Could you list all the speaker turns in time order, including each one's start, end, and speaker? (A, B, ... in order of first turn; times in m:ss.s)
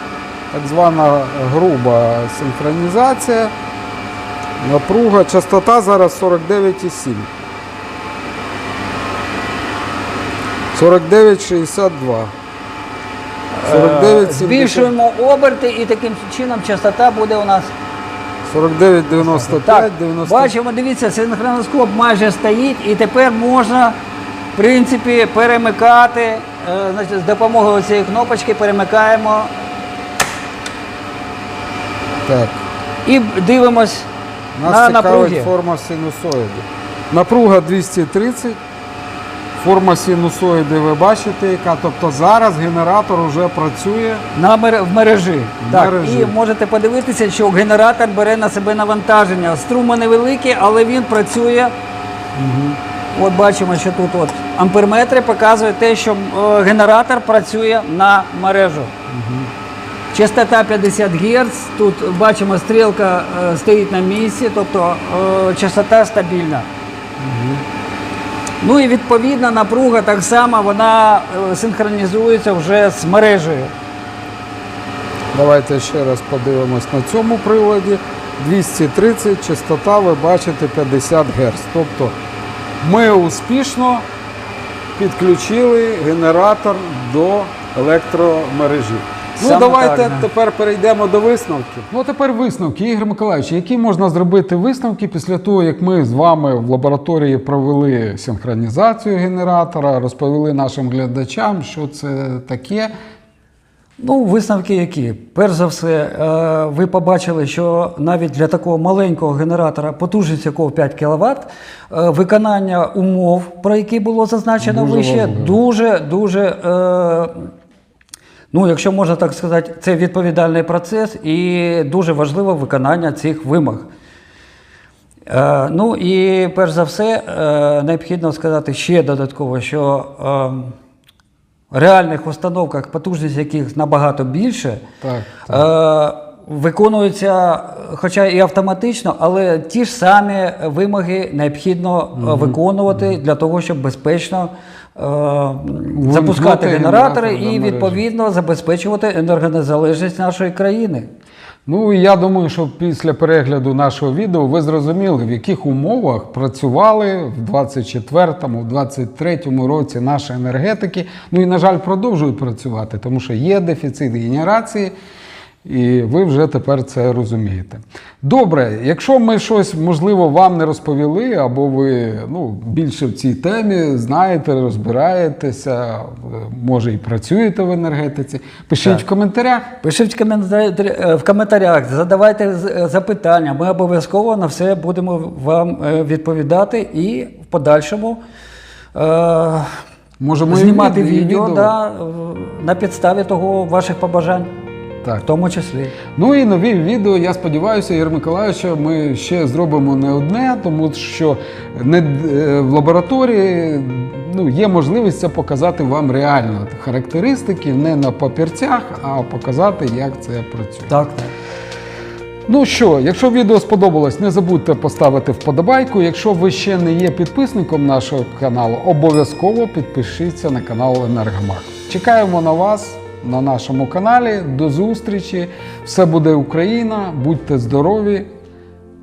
0:00.5-0:03.5 A
0:04.6-0:07.3 A
0:10.7-0:12.3 A
0:13.5-0:17.7 B
0:13.6-0:14.9 A
0:18.4-0:20.5 A
0:19.1-0:24.0 B
0:24.6-0:29.5 B
0:32.2-0:32.6 A
0:33.0-0:34.1 B
0:34.5-0:38.6 A
0:34.6-0:35.5 B
0:39.6-0:44.2 A
0:44.3-0:51.7 B
0:45.6-0:46.3 A
0:52.4-0:52.8 A
0:53.1-0:58.9 B
0:59.1-0:59.5 A
1:00.1-1:06.7 B
1:07.2-1:07.6 A
1:08.6-1:13.7 B
1:15.3-1:22.2 A
1:22.8-1:24.0 A
1:25.0-1:42.9 A
1:29.4-1:30.3 B
1:44.0-1:57.5 B
1:54.6-1:55.6 A
1:58.5-2:03.9 B
2:05.3-2:10.7 B
2:11.7-2:14.8 B
2:15.0-2:15.6 A
2:15.5-2:31.0 B
2:22.2-2:22.6 A
2:25.9-2:28.0 A
2:31.6-2:44.9 A
2:45.6-2:59.7 A
2:59.8-3:08.2 B
3:08.9-3:09.7 B
3:10.2-3:11.7 A
3:10.5-3:14.5 B
3:15.2-3:16.0 B
3:16.2-3:30.9 A
3:30.9-3:31.3 B
3:32.5-3:48.3 A